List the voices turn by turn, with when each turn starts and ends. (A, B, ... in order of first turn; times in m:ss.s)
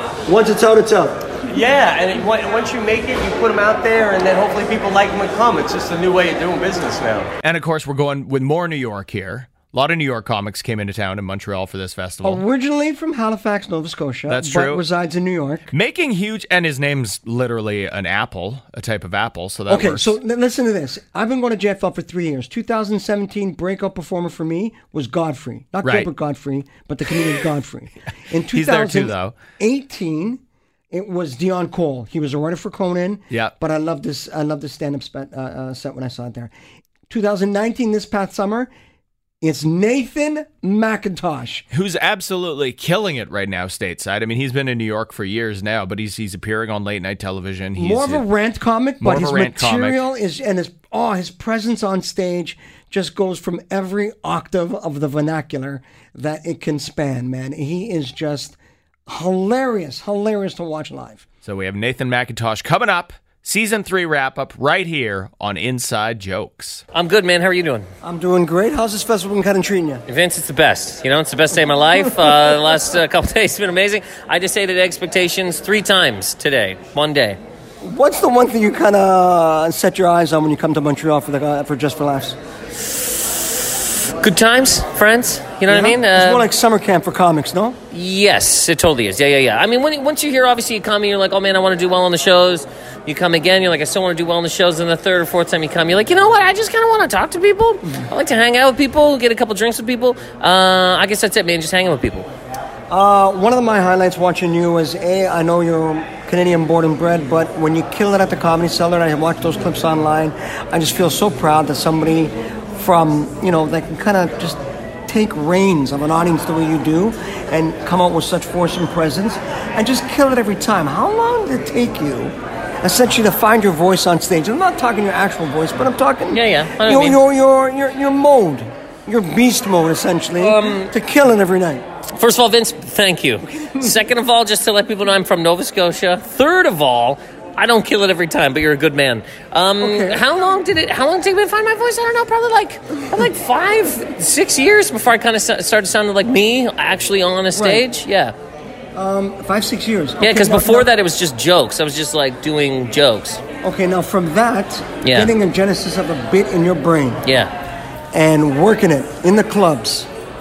0:00.2-0:01.2 A
0:01.5-0:07.3 B
0:07.4-0:12.4 C
0:12.2-0:15.7 A
0:14.3-0:14.8 C
0:15.7-0:20.1 C
0:19.7-0:36.5 A
0:25.8-0:26.1 C
0:28.5-0:29.4 C
0:37.1-0:38.7 A
0:39.4-0:41.6 A
0:41.7-0:48.2 C
0:47.8-1:01.2 A
0:49.0-0:50.0 C
1:01.4-1:06.8 C
1:06.9-1:07.9 D
1:08.0-1:10.0 A
1:10.1-1:17.4 D
1:12.0-1:12.6 A
1:17.8-1:22.4 A
1:24.2-1:26.4 D
1:25.7-1:27.8 A
1:27.9-1:42.3 D
1:42.9-2:11.8 A
2:06.3-2:07.2 D
2:10.4-2:10.8 D
2:12.2-2:28.3 D
2:13.6-2:13.9 A
2:19.8-2:20.2 A
2:27.5-2:27.8 A
2:28.9-2:30.9 A
2:30.2-2:33.4 D
2:33.6-2:37.2 A
2:35.0-2:35.3 D
2:37.2-2:37.5 D
2:38.1-2:40.1 A